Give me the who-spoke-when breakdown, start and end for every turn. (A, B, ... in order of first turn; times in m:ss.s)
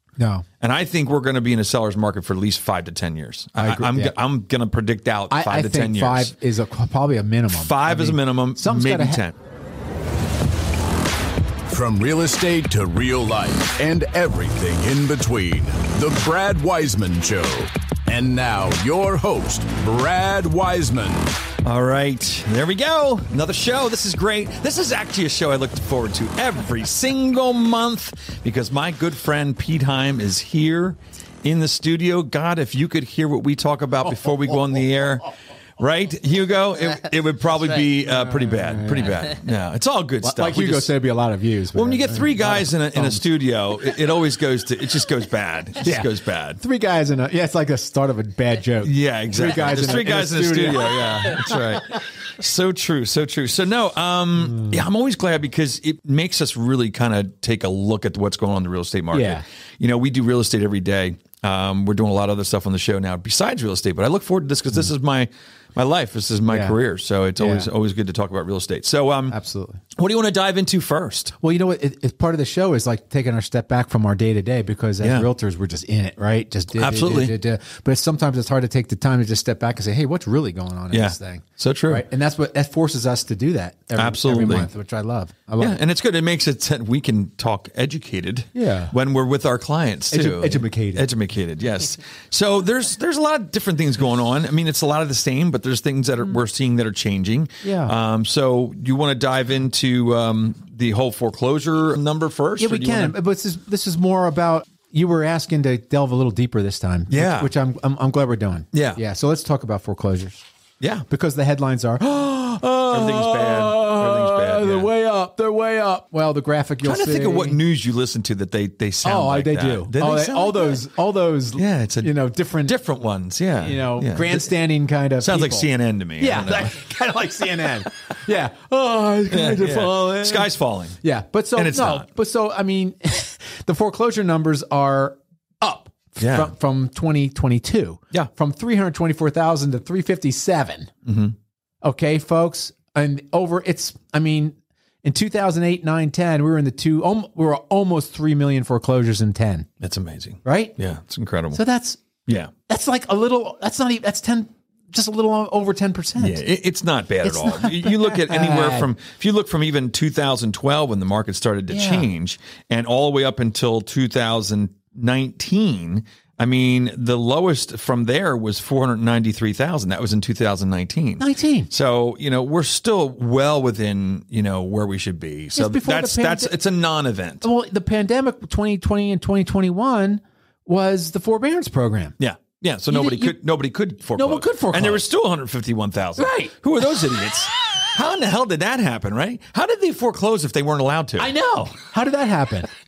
0:00.2-0:00.4 A
0:00.6-0:06.3 B
0:03.6-0:04.1 A
0:05.3-0:09.2 A
0:07.5-0:09.3 B
0:11.7-0:21.3 C
0:21.6-0:40.9 B
0:38.0-0:39.3 A
0:40.2-0:43.2 A
0:41.7-0:46.6 B
0:45.8-0:51.8 A
0:48.8-1:09.4 B
0:59.1-0:59.4 A
1:06.5-1:06.8 A
1:07.4-1:07.7 A
1:09.3-1:09.8 A
1:09.9-1:11.3 B
1:11.4-1:25.8 A
1:15.0-1:15.3 B
1:16.7-1:17.3 B
1:20.9-1:22.0 B
1:23.9-1:24.7 B
1:25.6-1:43.1 B
1:28.5-1:28.9 A
1:30.1-1:31.1 A
1:37.6-1:37.9 A
1:42.6-1:50.4 A
1:47.1-1:47.5 B
1:48.7-1:49.0 B
1:50.8-1:51.0 B
1:51.1-1:57.6 A
1:52.9-1:54.9 B
1:56.8-2:00.8 B
1:59.0-2:02.8 A
2:01.5-2:04.5 B
2:03.6-2:20.9 A
2:05.2-2:06.8 B
2:09.3-2:11.0 B
2:11.5-2:12.1 B
2:16.2-2:16.5 B
2:21.0-2:21.3 B
2:21.8-2:29.7 A
2:29.8-2:31.6 B
2:30.4-2:30.8 A
2:31.5-2:32.0 A
2:32.2-2:32.5 B
2:32.7-2:36.4 A
2:36.2-2:57.4 B
2:37.2-2:38.9 A
2:41.7-2:42.1 A
2:51.2-2:51.7 A
2:55.5-2:56.5 A
2:57.4-3:02.2 A
3:02.2-3:11.3 B
3:02.9-3:03.4 A
3:04.1-3:05.0 A
3:06.2-3:07.2 A
3:11.2-3:12.7 A